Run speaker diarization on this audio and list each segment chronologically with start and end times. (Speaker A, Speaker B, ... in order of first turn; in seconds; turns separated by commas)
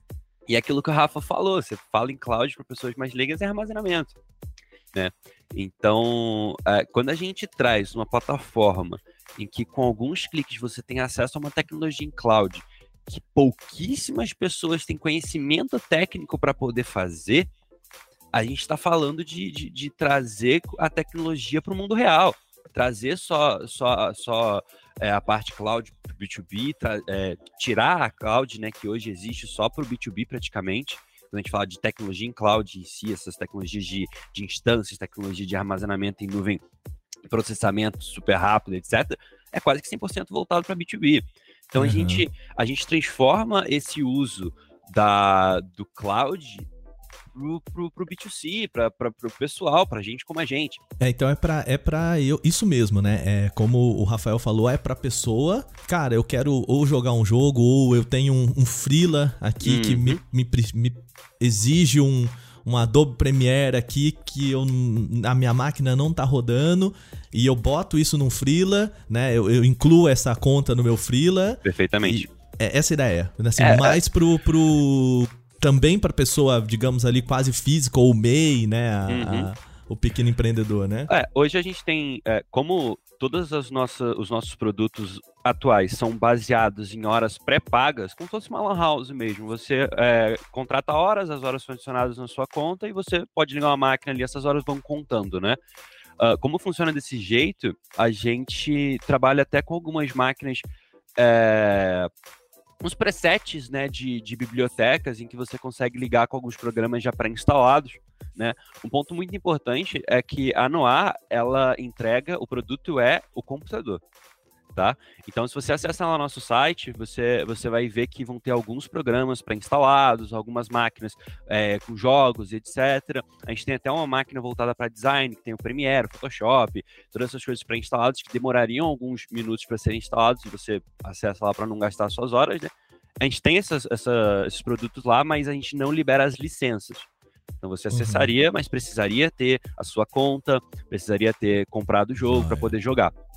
Speaker A: 0.5-4.1, Speaker A: 4.9-17.5, Speaker A: 18.3-36.6, Speaker A: 37.3-46.7, Speaker B: 41.8-42.2, Speaker A: 47.3-50.8, Speaker B: 51.0-81.1, Speaker A: 59.6-60.2, Speaker A: 71.6-72.3, Speaker A: 73.6-74.0, Speaker A: 79.1-79.5, Speaker A: 81.1-95.6, Speaker A: 96.2-102.1, Speaker A: 102.8-114.0, Speaker A: 114.7-132.7, Speaker A: 133.2-137.1, Speaker A: 137.6-143.1, Speaker B: 137.9-138.3, Speaker B: 142.2-142.7